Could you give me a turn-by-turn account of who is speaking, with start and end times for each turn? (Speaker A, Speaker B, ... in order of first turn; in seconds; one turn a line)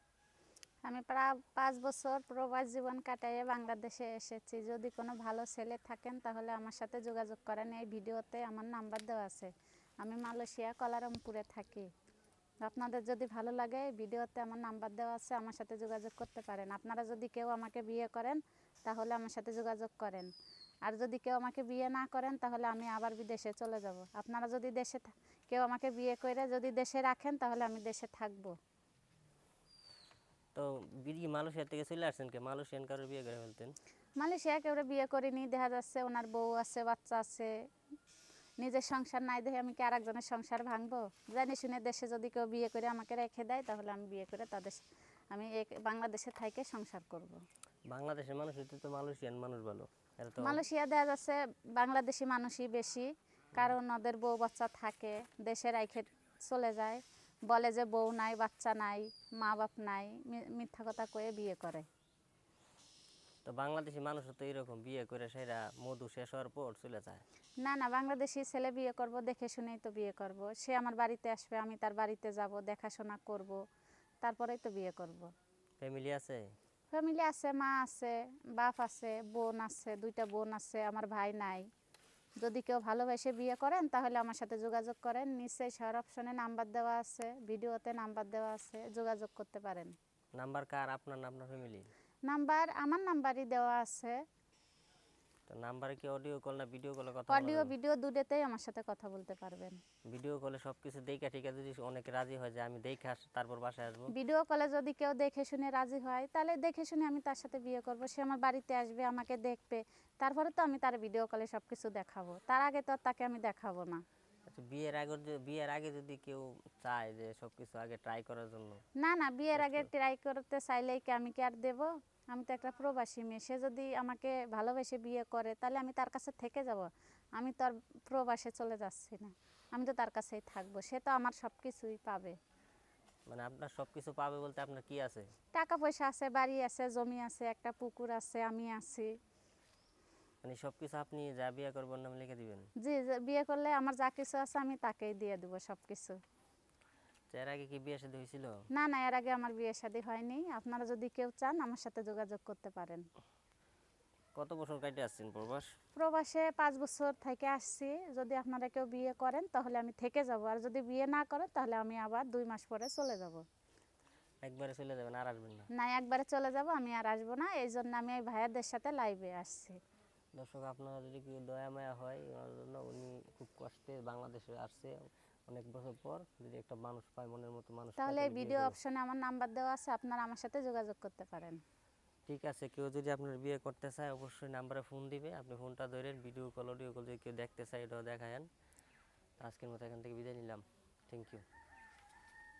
Speaker A: 0.8-11.9
Speaker A: 12.6-20.3
Speaker A: 20.9-28.5
Speaker B: 30.5-33.7
Speaker A: 34.2-37.5
Speaker A: 38.6-47.4
Speaker B: 47.9-50.6
Speaker A: 50.4-61.9
Speaker B: 63.4-67.2
Speaker A: 67.6-73.6
Speaker A: 74.2-75.3
Speaker B: 75.8-76.5
Speaker A: 76.9-81.7
Speaker A: 82.4-89.9
Speaker B: 90.4-91.9
Speaker A: 92.3-94.1
Speaker B: 95.5-97.7
Speaker A: 97.3-99.8
Speaker B: 100.1-104.1
Speaker A: 104.1-114.0
Speaker B: 114.5-118.8
Speaker A: 119.0-132.3
Speaker B: 119.5-119.9
Speaker B: 133.3-135.3
Speaker A: 135.5-139.1
Speaker B: 140.4-142.7
Speaker A: 142.8-146.2
Speaker B: 147.3-148.6
Speaker A: 148.7-153.0
Speaker B: 154.3-155.7
Speaker A: 155.9-163.4
Speaker B: 164.4-165.7
Speaker A: 165.7-169.8
Speaker B: 170.4-178.8
Speaker A: 178.0-181.6
Speaker B: 182.3-188.5
Speaker B: 189.4-191.4